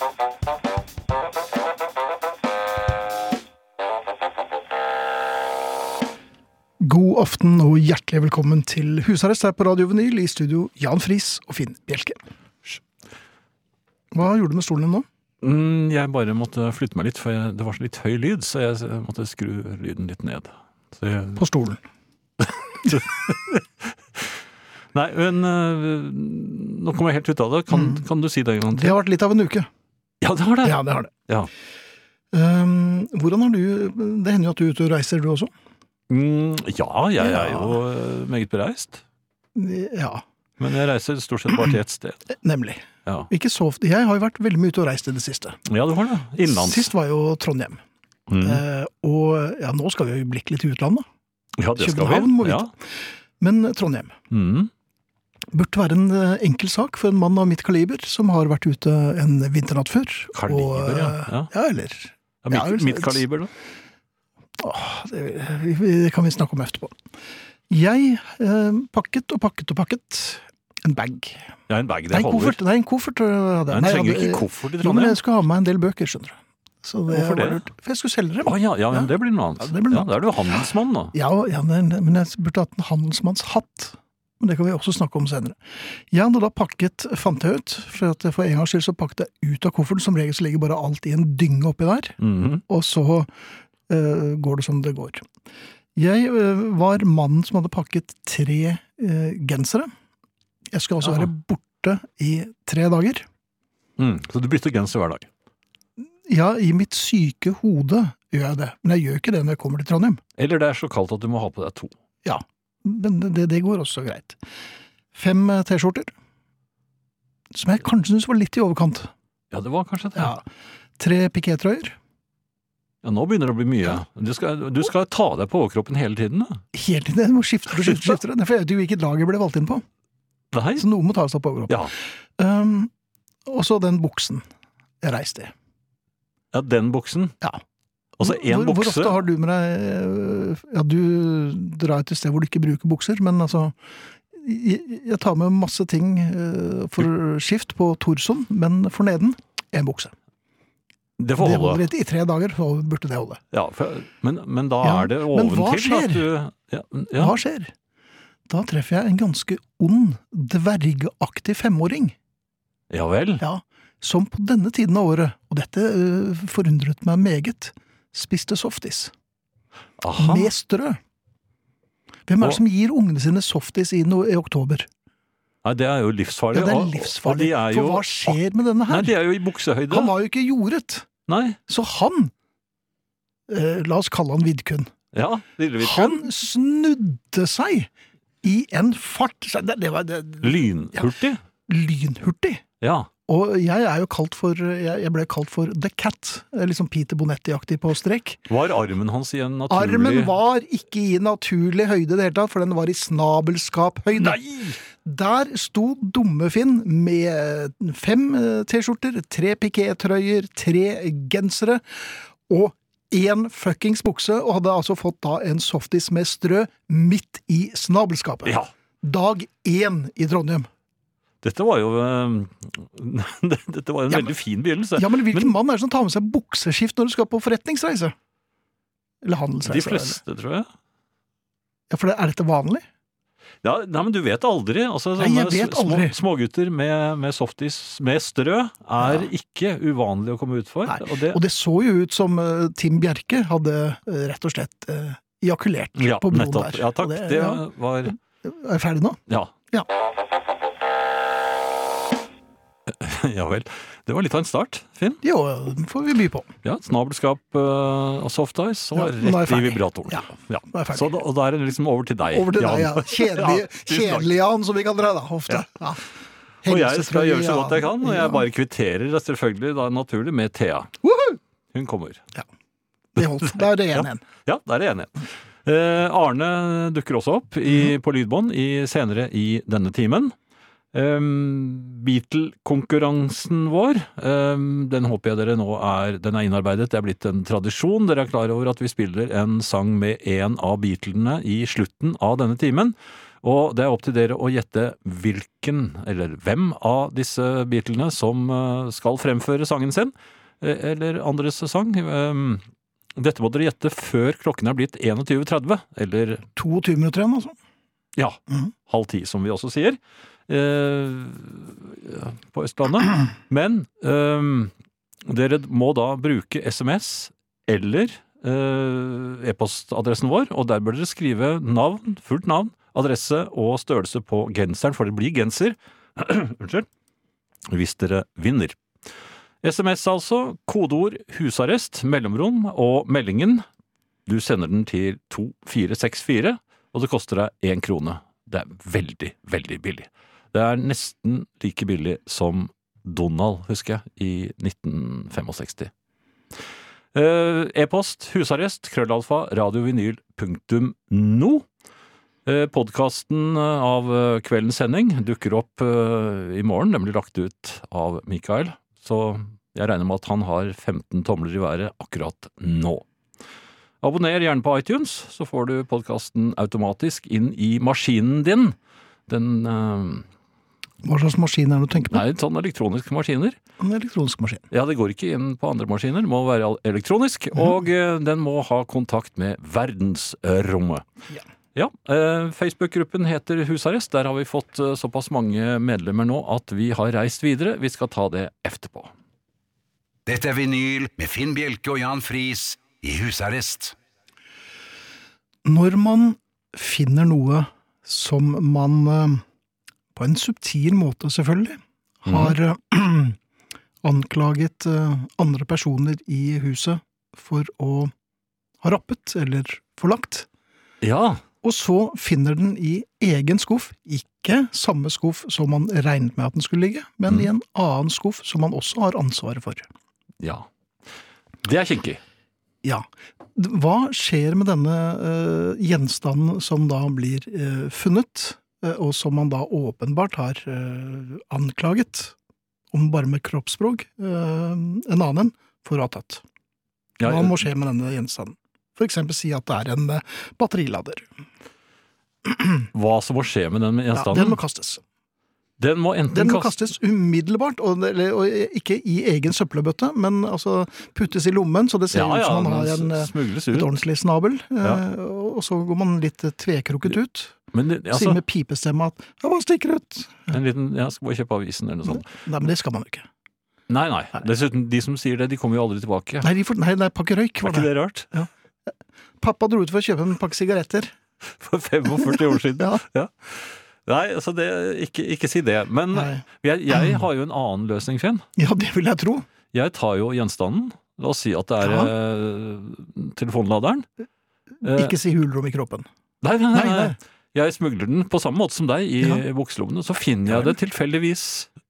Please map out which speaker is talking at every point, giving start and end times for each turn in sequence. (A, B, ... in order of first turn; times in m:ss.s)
0:06.8-0:12.2 A
0:14.1-0:15.1 A
0:15.4-0:21.4 B
0:21.4-0:21.8 A
0:22.4-0:24.3 B
0:25.0-0:29.0 B
0:27.7-0:28.0 A
0:28.7-0:29.7 A
0:30.2-0:31.5 B
0:30.6-0:31.1 A
0:32.3-0:35.5 A
0:36.1-0:39.0 B
0:37.2-0:37.8 A
0:39.6-0:40.2 A
0:40.6-0:42.2 B
0:42.4-0:45.6 A
0:45.7-0:46.9 B
0:46.4-0:47.8 A
0:48.3-0:48.6 B
0:48.4-0:51.0 A
0:51.6-0:52.7 B
0:51.8-0:52.8 A
0:53.4-0:54.1 A
0:54.3-0:54.7 B
0:55.5-1:03.2 A
1:00.3-1:01.5 B
1:02.4-1:03.5 B
1:04.6-1:07.0 A
1:07.7-1:11.5 A
1:11.7-1:12.6 B
1:12.1-1:32.2 A
1:13.7-1:15.2 B
1:17.1-1:17.6 B
1:18.4-1:21.1 B
1:32.2-1:32.6 B
1:32.7-1:33.3 A
1:33.9-1:35.2 A
1:36.0-1:39.9 A
1:40.7-1:43.3 A
1:41.0-1:41.3 B
1:44.0-1:45.3 B
1:46.3-1:50.2 A
1:50.4-1:51.9 B
1:52.2-1:54.4 A
1:55.1-1:56.1 A
1:57.5-1:59.1 A
1:59.5-2:00.3 B
2:00.2-2:00.4 A
2:01.0-2:02.0 A
2:03.0-2:06.6 B
2:06.7-2:09.8 A
2:10.5-2:10.9 B
2:10.8-2:11.9 A
2:12.4-2:12.9 A
2:13.5-2:14.4 A
2:15.0-2:15.5 A
2:16.5-2:17.4 B
2:18.2-2:19.2 B
2:18.2-2:23.8 A
2:24.3-2:30.1 A
2:31.2-2:31.8 B
2:31.4-2:33.4 A
2:33.5-2:37.4 B
2:34.8-2:36.3 A
2:37.2-2:37.7 A
2:38.5-2:42.2 A
2:42.9-2:43.4 B
2:43.4-2:49.1 A
2:50.0-2:50.5 B
2:50.2-2:51.0 A
2:52.3-2:54.9 A
2:55.6-2:58.4 B
2:56.5-2:59.1 A
2:58.9-3:00.2 B
2:59.9-3:01.1 A
3:01.3-3:01.6 B
3:01.7-3:02.3 A
3:03.5-3:04.9 A
3:05.1-3:06.3 B
3:05.8-3:07.9 A
3:08.4-3:11.1 A
3:10.4-3:11.4 B
3:11.7-3:12.6 A
3:12.8-3:13.1 B
3:13.3-3:18.4 A
3:18.5-3:20.3 B
3:19.7-3:40.7 A
3:24.2-3:24.8 B
3:41.4-3:45.5 B
3:45.0-3:48.2 A
3:49.2-3:50.2 A
3:49.6-3:50.7 B
3:51.9-3:52.8 A
3:53.6-4:01.4 B
3:55.2-3:56.2 A
3:59.0-3:59.3 A
4:00.9-4:09.2 A
4:06.0-4:08.2 B
4:12.9-4:15.2 B
4:15.2-4:16.5 A
4:16.6-4:24.3 B
4:19.0-4:21.1 A
4:22.3-4:26.0 A
4:26.6-4:28.4 A
4:26.7-4:31.0 B
4:31.0-4:31.4 A
4:31.7-4:32.2 B
4:33.2-4:34.2 A
4:33.6-4:40.4 B
4:40.9-5:02.6 B
5:03.2-5:06.4 B
5:06.6-5:07.6 A
5:08.2-5:14.7 B
5:15.3-5:26.9 B
5:27.7-5:28.8 B
5:29.6-5:33.6 B
5:34.3-5:45.9 B
5:47.1-5:51.6 B
5:52.5-6:03.0 B
6:04.0-6:08.8 B
6:09.3-6:10.2 B
6:11.0-6:12.2 A
6:12.1-6:13.6 B
6:13.8-6:14.6 A
6:14.7-6:21.0 B
6:21.8-6:29.1 B
6:30.3-6:34.0 C
6:35.6-6:39.4 A
6:40.1-6:43.4 A
6:42.3-6:42.6 B
6:44.0-6:48.1 A
6:48.8-6:50.5 A
6:51.0-6:51.4 B
6:51.6-6:59.9 A
7:01.6-7:02.2 B
7:03.6-7:12.4 A
7:12.9-7:16.4 A
7:17.2-7:17.7 B
7:17.2-7:21.3 A
7:22.5-7:22.8 A
7:22.9-7:24.6 B
7:24.1-7:25.0 A
7:25.8-7:26.8 B
7:26.3-7:37.6 A
7:32.1-7:33.9 B
7:37.7-7:38.4 B
7:38.1-7:40.6 A
7:40.5-7:42.3 B
7:42.1-7:43.3 A
7:43.9-7:46.5 B
7:46.4-7:48.5 A
7:47.7-7:48.4 B
7:49.4-7:51.1 A
7:51.6-7:58.4 B
7:52.2-7:53.0 A
7:56.1-7:57.2 A
7:58.6-7:59.5 A
7:59.7-8:04.0 B
8:01.8-8:02.1 A
8:04.8-8:05.2 B
8:04.8-8:06.1 A
8:06.4-8:11.7 B
8:06.7-8:07.2 A
8:10.5-8:10.8 A